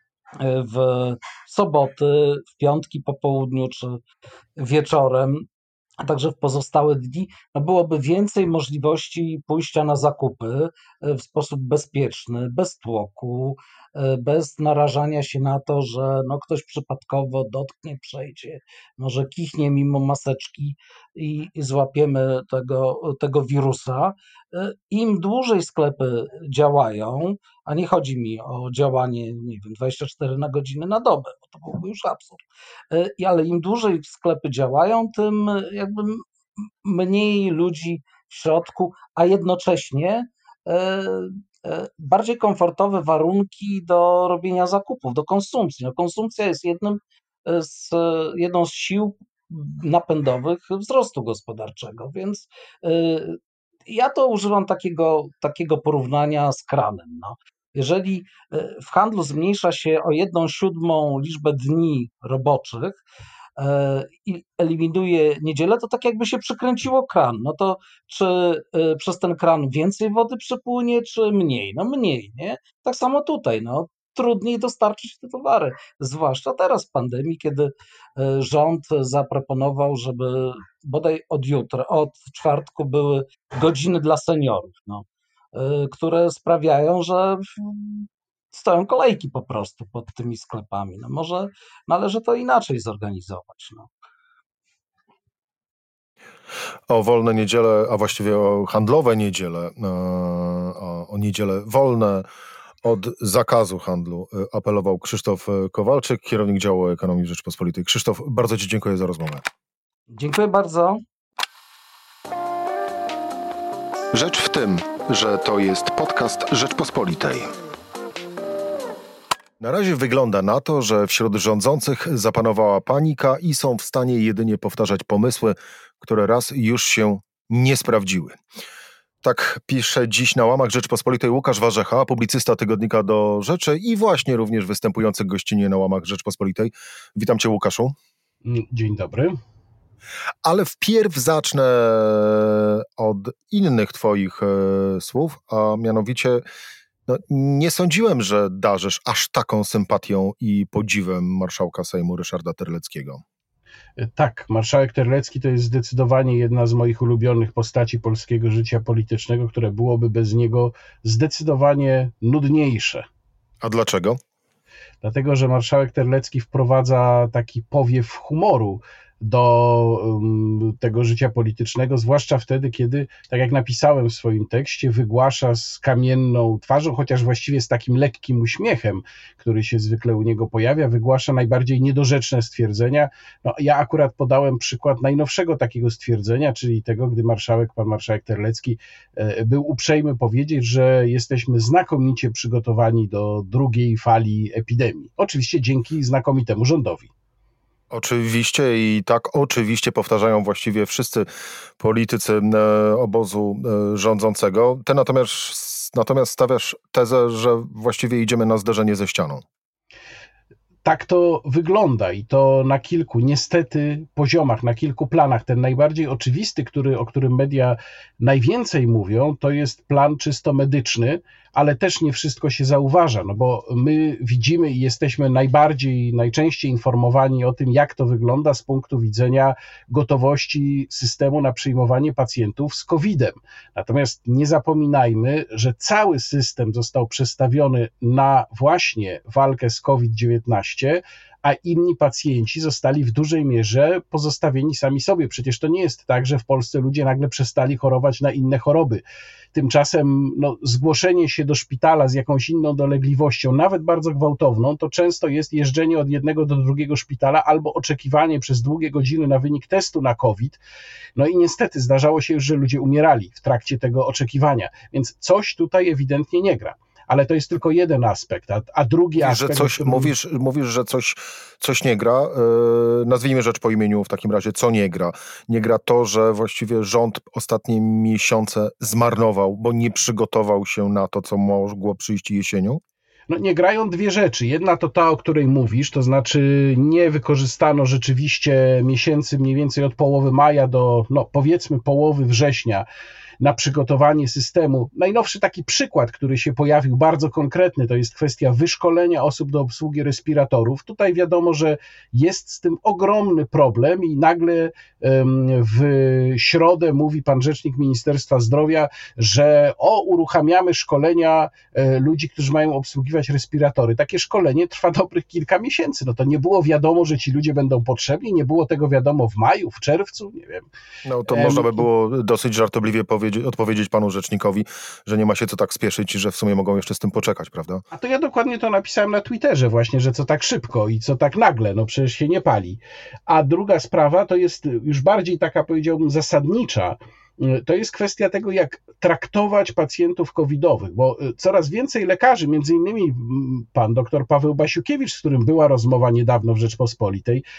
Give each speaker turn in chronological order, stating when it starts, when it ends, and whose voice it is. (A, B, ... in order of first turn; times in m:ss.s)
0:00.4-0:04.0 A
0:04.6-0:05.4 A
0:06.0-0:36.2 A
0:36.8-1:03.0 A
1:03.6-1:33.9 A
1:36.9-1:42.2 B
1:42.8-1:49.4 B
1:50.1-1:51.0 A
1:54.1-1:57.5 B
1:59.6-2:08.4 B
2:09.2-2:18.0 B
2:18.4-2:19.4 C
2:20.4-2:26.4 B
2:27.1-2:33.2 B
2:34.0-2:43.0 C
2:43.6-2:44.2 B
2:45.0-3:17.1 C
3:17.9-3:21.3 B
3:21.8-3:29.4 B
3:30.8-4:09.0 C
4:09.5-4:20.6 C
4:21.2-4:30.1 C
4:29.2-4:42.8 B
4:43.3-4:52.8 C
4:53.4-5:20.7 C
5:21.0-5:27.8 B
5:21.3-5:21.8 C
5:27.9-5:47.4 C